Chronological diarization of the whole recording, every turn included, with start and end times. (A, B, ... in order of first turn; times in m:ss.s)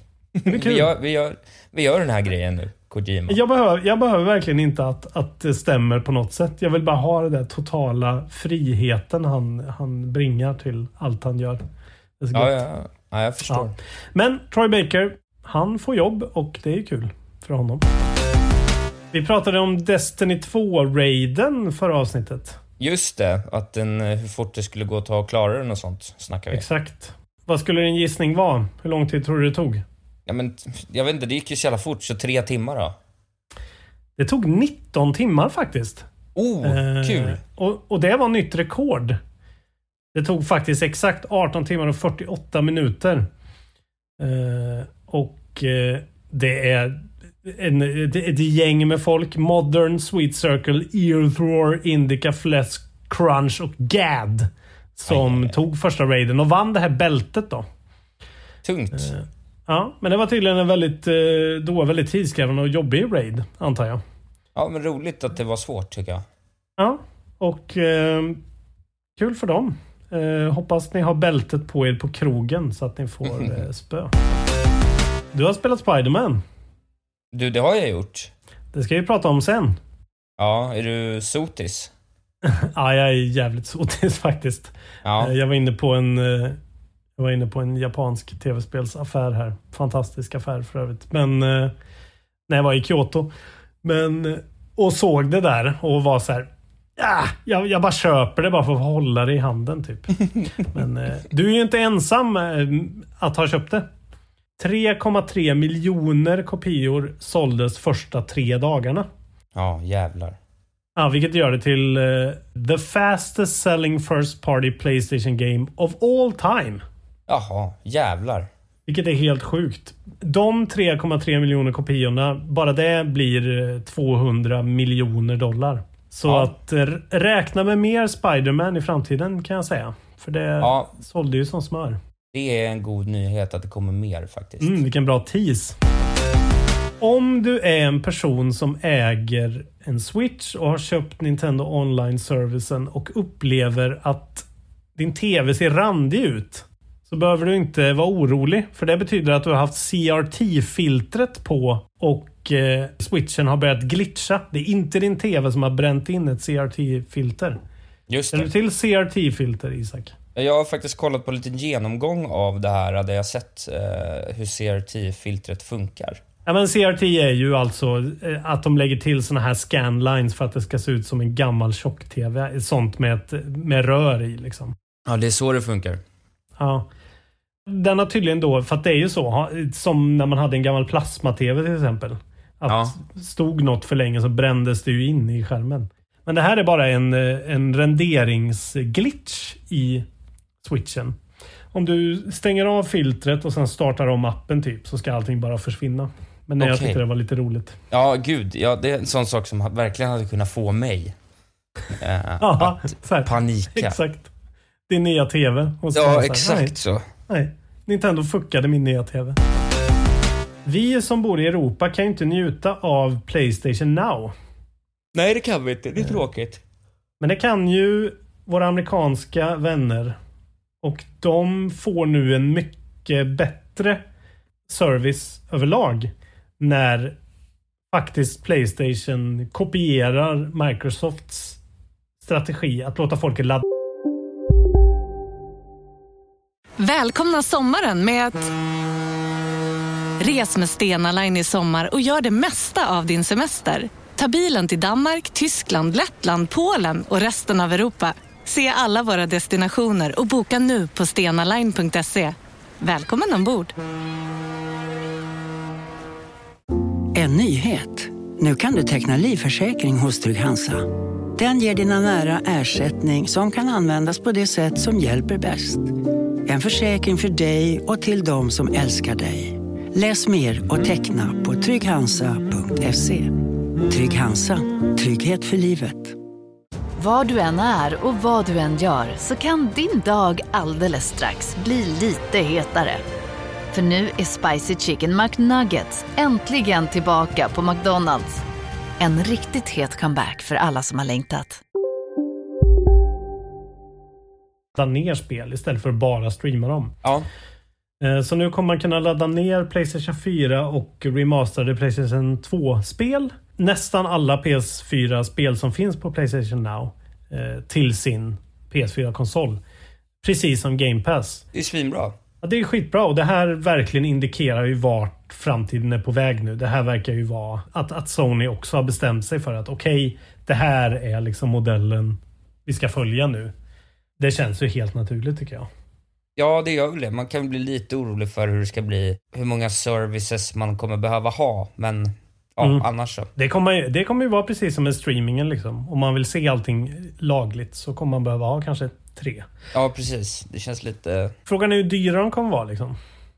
0:00.4-0:03.4 A
0:00.4-0:00.9 B
0:03.3-0:11.6 B
0:12.2-0:12.6 B
0:12.3-0:13.7 A
0:13.5-0:17.8 B
0:19.1-0:22.6 B
0:22.8-0:26.6 A
0:26.5-0:29.8 B
0:30.3-0:33.0 A
0:34.2-0:36.1 B
0:36.4-0:37.4 A
0:36.6-0:39.2 B
0:40.2-0:43.3 B
0:44.2-0:57.7 B
0:55.1-0:55.6 A
0:58.6-0:59.1 A
0:58.9-1:04.0 B
1:04.6-1:06.2 A
1:06.8-1:08.4 B
1:09.2-1:14.1 B
1:15.3-1:16.4 B
1:17.3-1:18.3 A
1:18.7-1:19.8 B
1:20.4-1:21.9 A
1:22.4-1:26.6 B
1:25.0-1:25.3 A
1:27.2-1:31.7 B
1:32.5-1:33.3 B
1:33.8-1:43.8 B
1:44.6-1:49.1 B
1:49.5-1:50.4 A
1:51.0-1:56.8 B
1:57.3-1:58.5 A
1:58.9-2:12.0 B
2:06.3-2:06.5 A
2:10.6-2:10.9 A
2:12.3-2:14.8 A
2:14.6-2:15.8 B
2:17.0-2:24.5 B
2:25.0-2:37.6 B
2:38.1-2:38.5 A
2:38.3-2:40.1 B
2:40.4-2:46.2 A
2:46.5-2:54.7 B
2:55.1-2:56.0 A
2:56.6-2:56.9 B
2:57.7-3:10.0 B
3:02.7-3:03.0 A
3:10.6-3:11.2 B
3:11.7-3:17.8 B
3:16.6-3:17.0 A
3:17.9-3:21.2 A
3:22.0-3:24.0 A
3:22.4-3:24.3 B
3:24.9-3:26.7 B
3:25.9-3:27.0 A
3:27.3-3:29.4 B
3:30.6-3:34.3 B
3:35.1-3:36.6 A
3:37.2-3:40.2 B
3:40.8-3:44.0 B
3:44.7-3:47.2 B
3:47.9-3:51.6 B
3:52.2-3:53.6 B
3:56.8-3:58.5 C
4:00.2-4:13.7 C
4:17.1-4:25.9 D
4:26.4-4:36.2 D
4:37.0-4:43.0 E
4:43.7-4:48.4 E
4:49.0-4:51.6 E
4:54.8-4:56.9 B
4:57.0-4:57.3 A
4:58.0-5:09.6 B
5:10.2-5:11.4 B
5:11.5-5:12.2 A
5:12.4-5:23.5 B
5:24.2-5:25.7 B
5:26.4-5:33.3 A
5:33.4-5:39.4 B
5:39.7-5:41.3 A
5:41.5-5:43.0 B